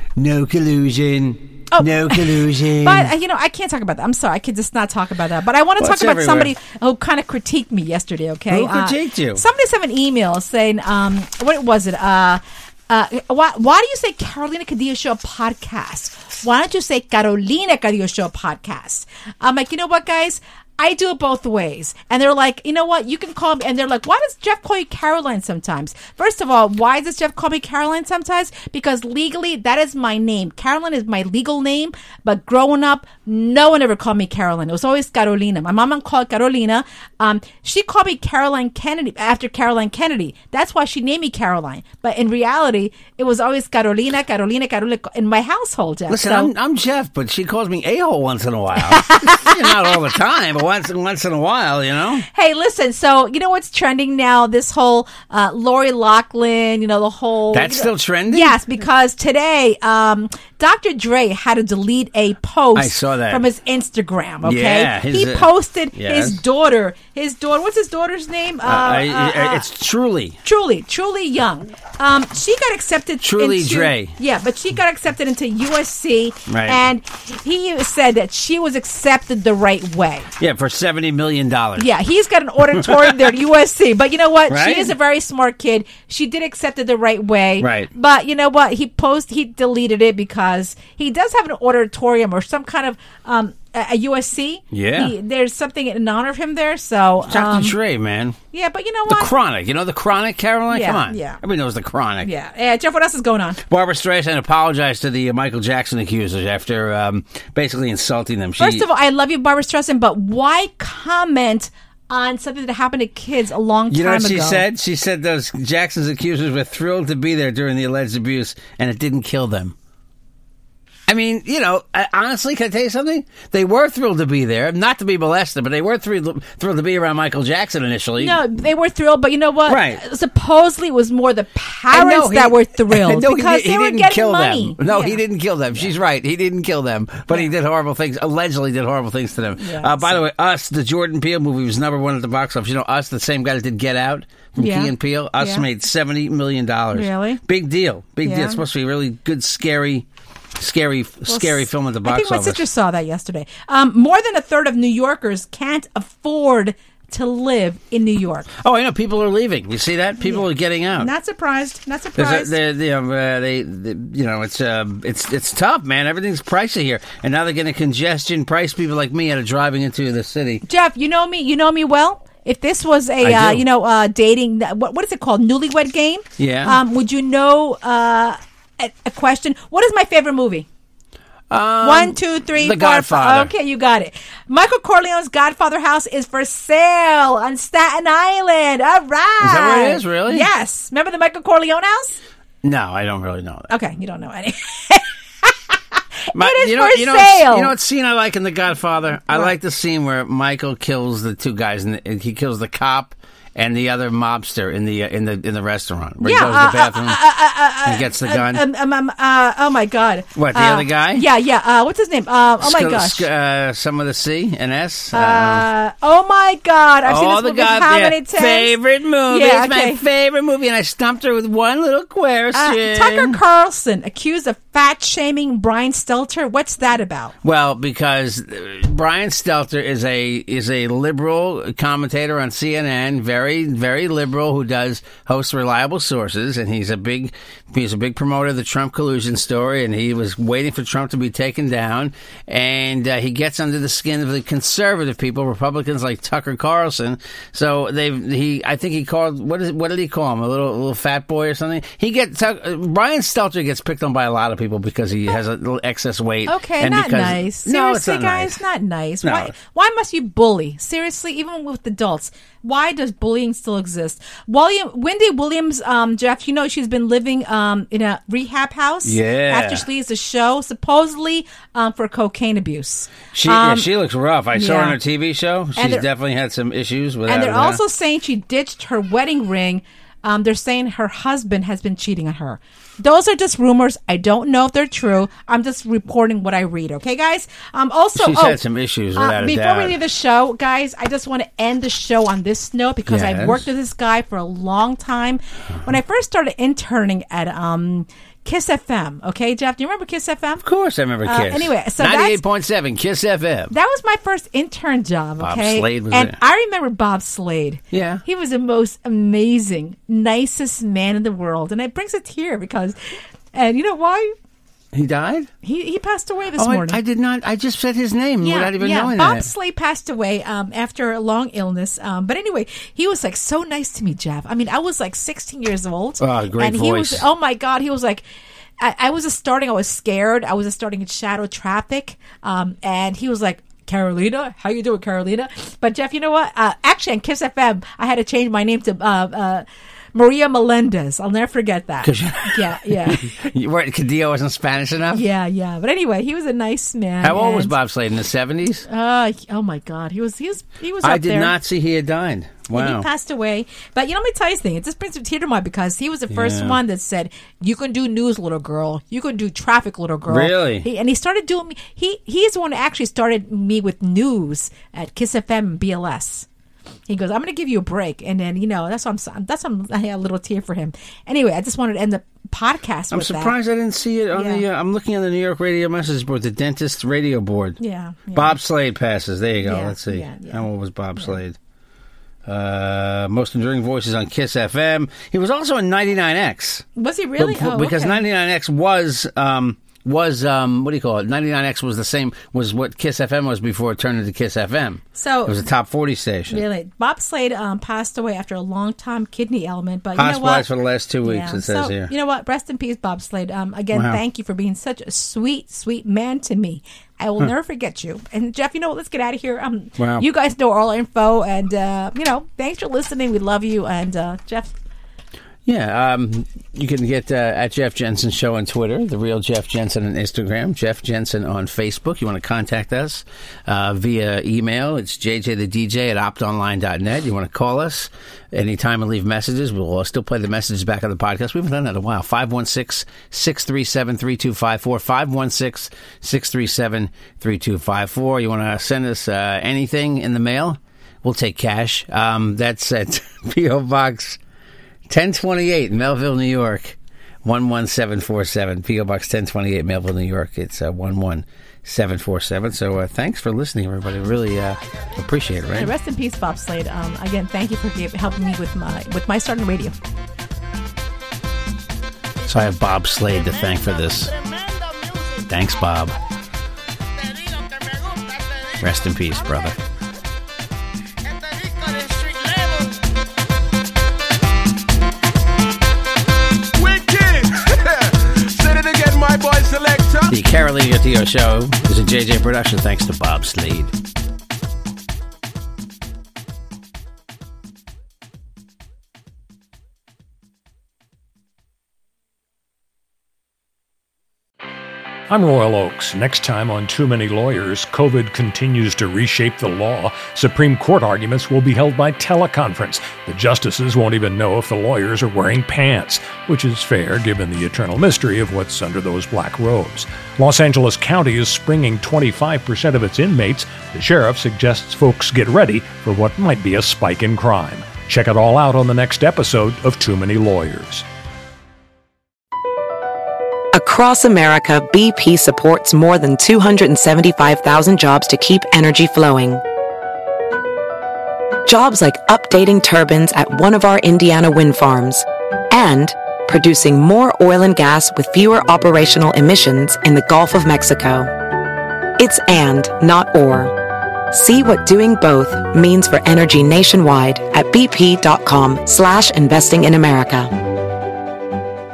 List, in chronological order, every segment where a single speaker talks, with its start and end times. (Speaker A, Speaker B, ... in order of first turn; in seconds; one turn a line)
Speaker A: 0.1-3.1
Speaker B: 1.7-46.5
Speaker A: 5.8-6.5
Speaker A: 8.5-9.4
Speaker A: 46.1-52.2
Speaker B: 48.9-49.9
Speaker B: 52.3-69.7
Speaker A: 57.5-58.6
Speaker A: 62.7-63.5
Speaker A: 64.4-66.4
Speaker A: 68.6-70.4
Speaker B: 70.4-80.3
Speaker A: 73.2-74.1
Speaker A: 76.5-76.8
Speaker A: 80.4-81.9
Speaker B: 81.8-97.8
Speaker A: 82.8-83.1
Speaker A: 84.5-84.9
Speaker A: 87.6-87.9
Speaker A: 94.7-95.1
Speaker A: 97.3-98.4
Speaker B: 98.5-99.3
Speaker A: 99.1-102.3
Speaker B: 100.7-101.4
Speaker B: 102.2-103.6
Speaker A: 103.7-108.9
Speaker B: 108.6-114.6
Speaker A: 113.9-119.7
Speaker A: 121.1-128.4
Speaker B: 128.2-135.2
Speaker A: 129.7-130.0
Speaker A: 131.9-150.0
Speaker B: 139.6-140.2
Speaker B: 144.6-145.7
Speaker B: 146.9-147.4
Speaker B: 148.2-148.6
Speaker A: 150.6-152.6
Speaker B: 151.3-158.5
Speaker A: 158.6-161.1
Speaker B: 160.2-162.6
Speaker A: 162.2-170.6
Speaker B: 170.7-180.7
Speaker A: 173.2-173.6
Speaker A: 176.4-176.8
Speaker A: 181.5-183.5
Speaker B: 181.8-192.2
Speaker A: 189.4-190.5
Speaker A: 192.6-193.7
Speaker B: 193.7-195.8
Speaker B: 196.3-197.7
Speaker A: 196.3-207.2
Speaker B: 206.2-213.3
Speaker A: 207.8-208.6
Speaker A: 210.3-211.2
Speaker A: 212.6-215.6
Speaker B: 215.1-218.8
Speaker A: 217.1-223.4
Speaker B: 219.3-220.0
Speaker B: 222.5-227.3
Speaker A: 227.4-258.6
Speaker B: 256.5-273.9
Speaker A: 259.2-259.5
Speaker A: 269.0-269.8
Speaker A: 273.3-277.8
Speaker B: 274.5-275.0
Speaker B: 275.8-276.1
Speaker B: 277.3-288.6
Speaker A: 288.1-289.9
Speaker B: 289.1-300.6
Speaker A: 293.1-293.6
Speaker A: 300.6-303.7
Speaker B: 301.2-302.4
Speaker B: 303.7-313.0
Speaker A: 305.4-306.4
Speaker A: 307.9-308.2
Speaker B: 313.5-314.3
Speaker A: 314.9-315.5
Speaker B: 315.6-317.0
Speaker A: 316.6-319.5
Speaker B: 318.4-328.2
Speaker A: 326.2-327.2
Speaker B: 328.8-343.5
Speaker A: 342.0-345.2
Speaker B: 345.1-347.7
Speaker A: 347.2-348.9
Speaker B: 348.9-351.5
Speaker A: 351.0-353.1
Speaker B: 352.7-366.5
Speaker A: 356.3-356.8
Speaker A: 360.3-360.9
Speaker B: 367.1-373.6
Speaker A: 373.1-377.8
Speaker B: 374.3-374.6
Speaker B: 377.8-378.6
Speaker A: 378.3-381.6
Speaker B: 379.6-381.4
Speaker A: 382.4-386.8
Speaker B: 386.9-388.2
Speaker A: 387.4-396.6
Speaker B: 395.1-395.6
Speaker B: 396.5-400.6
Speaker A: 400.1-402.1
Speaker B: 401.2-414.7
Speaker A: 403.9-404.2
Speaker A: 410.0-410.2
Speaker A: 415.6-444.4
Speaker A: 445.1-455.9
Speaker B: 455.7-459.9
Speaker A: 462.4-464.4
Speaker A: 465.5-466.2
Speaker A: 468.8-469.8
Speaker C: 476.8-477.5
Speaker C: 478.6-480.3
Speaker A: 480.3-483.9
Speaker D: 495.3-521.0
Speaker E: 523.7-529.6
Speaker E: 531.6-541.3
Speaker E: 542.2-543.8
Speaker E: 544.3-550.5